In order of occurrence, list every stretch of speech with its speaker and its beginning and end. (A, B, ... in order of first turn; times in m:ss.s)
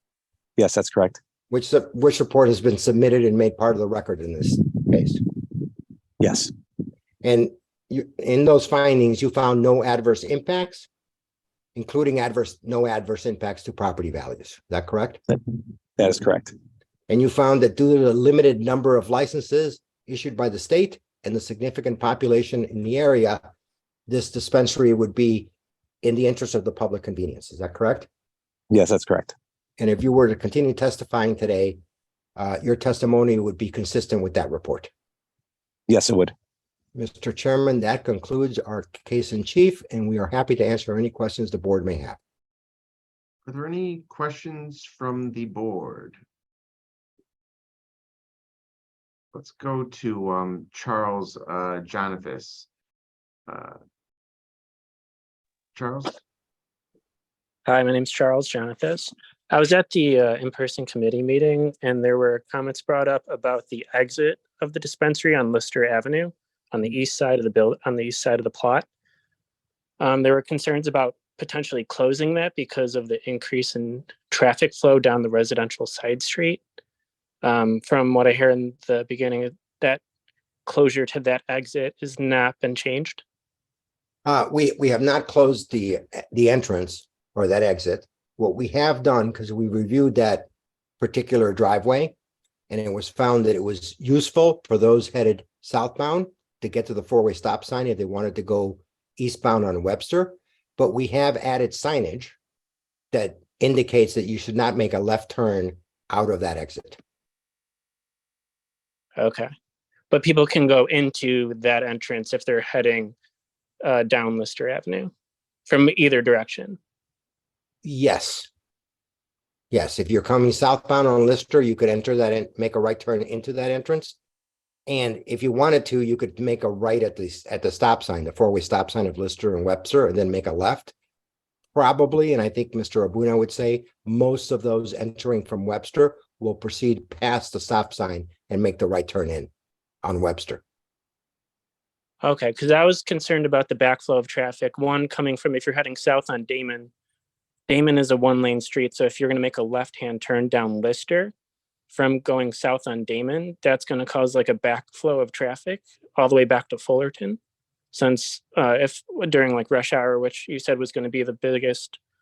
0:00.6-0:01.2 A
0:01.5-0:05.2 B
0:06.2-0:06.5 A
0:07.2-0:10.9 B
0:11.8-0:15.2 B
0:16.0-0:16.5 A
0:17.1-0:23.4 B
0:24.1-0:25.5 B
0:26.0-0:28.1 B
0:28.7-0:29.4 A
0:29.8-0:31.8 B
0:32.4-0:34.9 B
0:35.9-0:36.3 A
0:37.0-0:42.2 B
0:43.5-0:46.2 C
0:49.3-0:52.7 C
0:53.5-0:53.8 C
0:55.8-0:56.2 C
0:57.7-1:08.9 D
1:10.0-1:16.6 D
1:17.4-1:20.0 D
1:20.7-1:23.2 D
1:24.2-1:30.5 B
1:31.0-1:32.1 B
1:32.7-1:42.4 B
1:43.1-1:47.0 B
1:49.2-1:49.5 D
1:50.1-1:53.2 D
1:53.8-1:55.1 D
1:55.7-1:56.8 D
1:57.8-1:58.5 B
1:59.7-2:04.2 B
2:04.9-2:10.9 B
2:11.7-2:19.5 B
2:20.0-2:20.6 B
2:22.2-2:26.9 D
2:27.7-2:31.3 D
2:31.9-2:37.4 D
2:37.9-2:42.0 D